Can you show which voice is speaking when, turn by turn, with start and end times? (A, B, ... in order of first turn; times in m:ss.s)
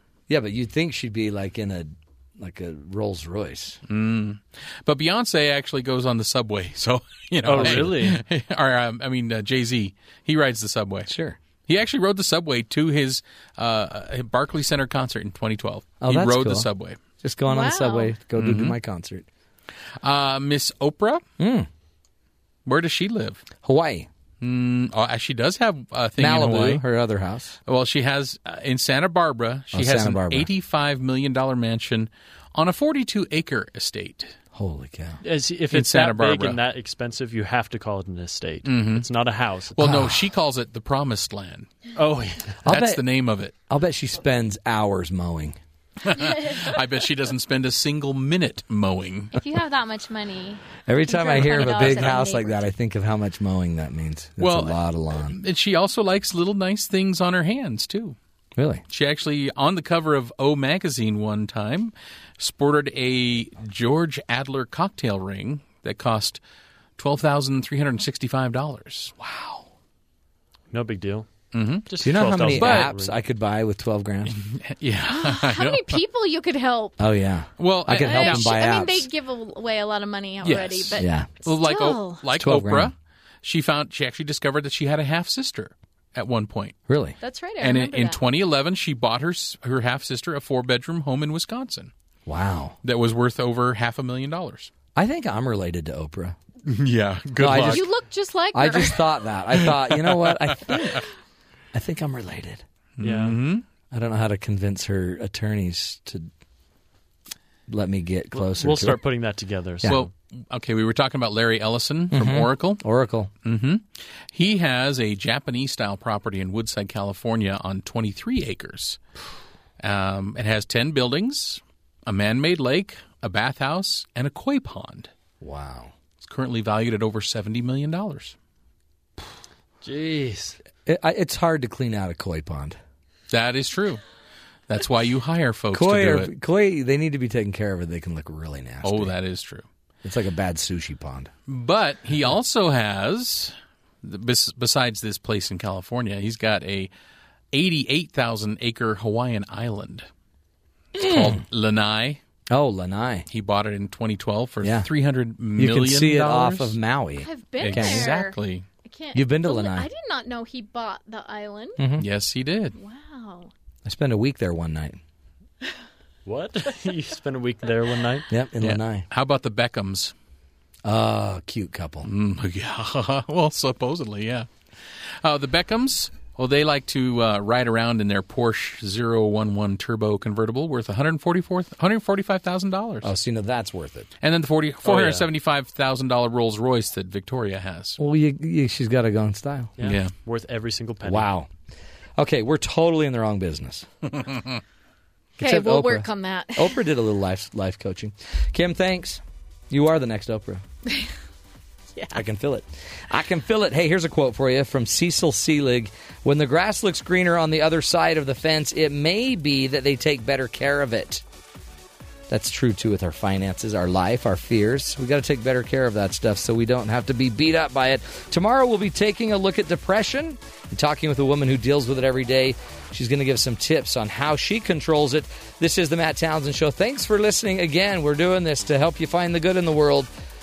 0:00.3-0:03.8 A
0:03.9-0:11.1 B
0:07.4-0:08.2 C
0:07.6-0:07.9 A
0:11.1-0:11.4 A
0:11.7-0:17.0 B
0:16.0-0:16.6 A
0:17.2-0:19.2 A
0:17.4-0:18.2 D
0:18.3-0:18.8 B
0:20.0-0:21.2 B
0:21.4-0:21.7 A
0:22.6-0:23.4 B
0:23.6-0:24.1 A
0:24.4-0:26.8 B
0:26.2-0:27.6 A
0:27.7-0:34.4 B
0:29.7-0:30.5 A
0:34.5-0:35.2 A
0:35.2-0:40.0 C
0:35.7-0:36.6 B
0:38.6-0:39.1 B
0:39.7-0:43.5 B
0:39.8-0:40.2 A
0:42.6-0:43.0 A
0:43.7-0:45.6 A
0:46.0-0:49.6 B
0:49.3-0:52.6 E
0:50.8-0:55.4 A
0:51.4-0:52.2 B
0:54.4-0:58.2 B
0:58.6-0:58.8 A
0:58.9-1:06.4 B
1:07.0-1:09.6 B
1:10.7-1:11.3 C
1:11.5-1:12.9 B
1:11.8-1:13.2 C
1:12.0-1:14.4 A
1:14.3-1:16.0 B
1:15.1-1:17.0 D
1:17.0-1:19.1 A
1:17.6-1:18.6 B
1:18.0-1:22.2 D
1:20.4-1:26.8 B
1:21.0-1:21.3 A
1:22.4-1:22.9 A
1:26.9-1:27.2 A
1:27.2-1:28.2 D
1:27.6-1:31.9 B
1:32.2-1:32.8 A
1:32.8-1:34.7 B
1:34.9-1:36.4 A
1:36.6-1:37.8 B
1:37.4-1:37.9 A
1:37.6-1:39.0 D
1:38.5-1:41.1 A
1:39.5-1:41.0 B
1:41.7-1:42.6 A
1:43.0-1:43.6 B
1:43.0-1:43.4 C
1:43.9-1:46.3 A
1:47.7-1:49.0 A
1:48.3-1:50.1 C
1:49.8-1:52.8 B
1:52.1-1:53.3 A
1:53.4-1:59.0 B
1:59.8-2:05.1 B
2:05.4-2:05.9 A
2:06.2-2:08.3 B
2:09.8-2:10.6 C
2:10.8-2:12.8 A
2:13.3-2:14.0 B
2:14.7-2:16.3 B
2:15.7-2:19.1 A
2:18.8-2:19.6 B
2:20.0-2:21.3 A
2:21.5-2:26.9 B
2:27.5-2:30.1 B
2:31.0-2:32.2 B
2:31.0-2:31.4 A
2:32.5-2:33.3 A
2:33.3-2:36.8 B
2:34.6-2:34.9 A
2:35.6-2:38.1 A
2:37.2-2:41.8 D
2:37.6-2:38.7 B
2:39.1-2:39.9 A
2:41.8-2:42.1 A
2:42.0-2:42.8 B
2:42.7-2:43.5 D
2:43.8-2:45.0 A
2:46.2-2:48.3 C
2:48.3-2:49.1 A
2:48.6-2:50.1 B
2:50.8-2:52.1 A
2:52.0-3:03.1 B
3:03.0-3:04.1 A
3:04.2-3:08.0 B
3:04.8-3:05.2 C
3:08.0-3:09.8 A
3:09.8-3:11.3 C
3:09.8-3:10.1 B
3:11.0-3:11.5 A
3:12.2-3:13.9 A
3:15.4-3:16.8 D
3:15.4-3:20.6 A
3:21.9-3:22.2 D
3:22.1-3:31.2 A
3:32.3-3:50.1 A